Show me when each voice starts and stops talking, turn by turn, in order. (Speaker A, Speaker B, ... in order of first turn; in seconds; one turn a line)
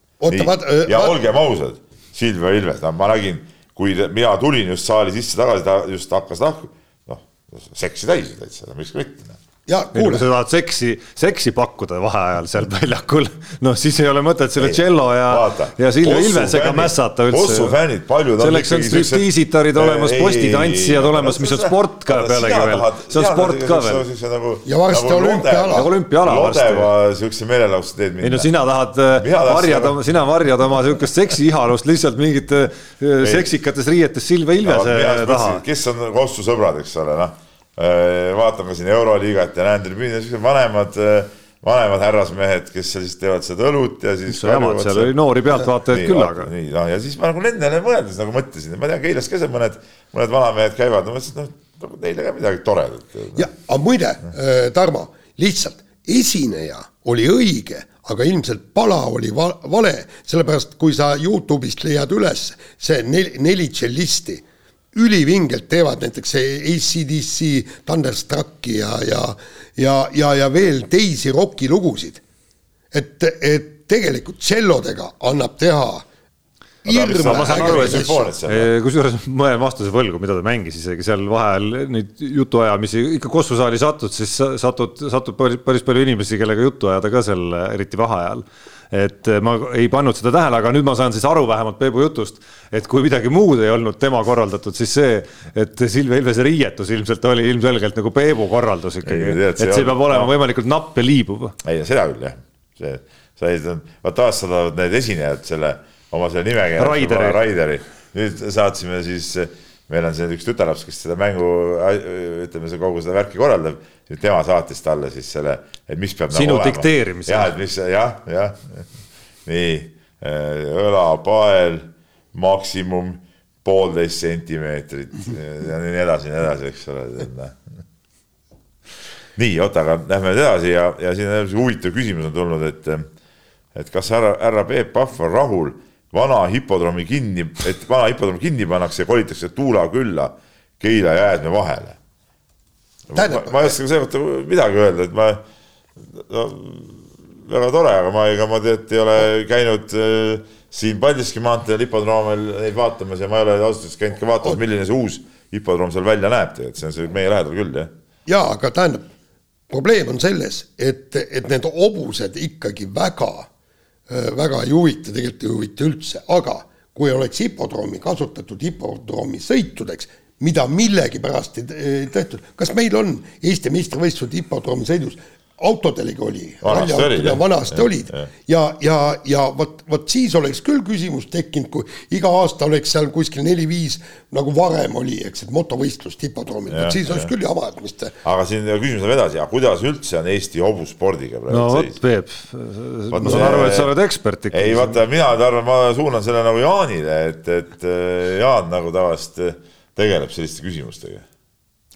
Speaker A: 0.2-1.1
Speaker B: 0.3-9.4
Speaker A: 9.7-10.2
Speaker C: 9.9-17.8
Speaker B: 14.6-28.5
Speaker C: 18.4-24.0
Speaker A: 24.6-25.9
Speaker C: 25.7-26.9
Speaker C: 28.2-35.6
Speaker B: 29.1-30.0
Speaker B: 33.2-33.5
Speaker B: 34.6-45.1
Speaker C: 44.3-46.5
Speaker B: 45.9-53.5
Speaker A: 53.3-72.2
Speaker A: 72.9-76.0
Speaker A: 76.8-78.2
Speaker B: 76.8-78.7
Speaker C: 77.2-101.5
Speaker B: 99.0-100.3
Speaker B: 101.6-118.9
Speaker C: 106.8-107.4
Speaker C: 116.3-117.5
Speaker B: 119.5-127.6
Speaker B: 129.4-133.1
Speaker B: 133.7-142.0
Speaker B: 143.1-145.4
Speaker A: 143.1-143.8
Speaker B: 146.0-157.9
Speaker A: 158.2-159.1
Speaker A: 159.7-163.5
Speaker A: 164.1-188.2
Speaker B: 176.6-178.3
Speaker B: 186.7-187.3
Speaker B: 188.2-192.0
Speaker C: 191.5-195.0
Speaker B: 193.1-193.9
Speaker A: 193.2-193.7
Speaker B: 194.5-201.2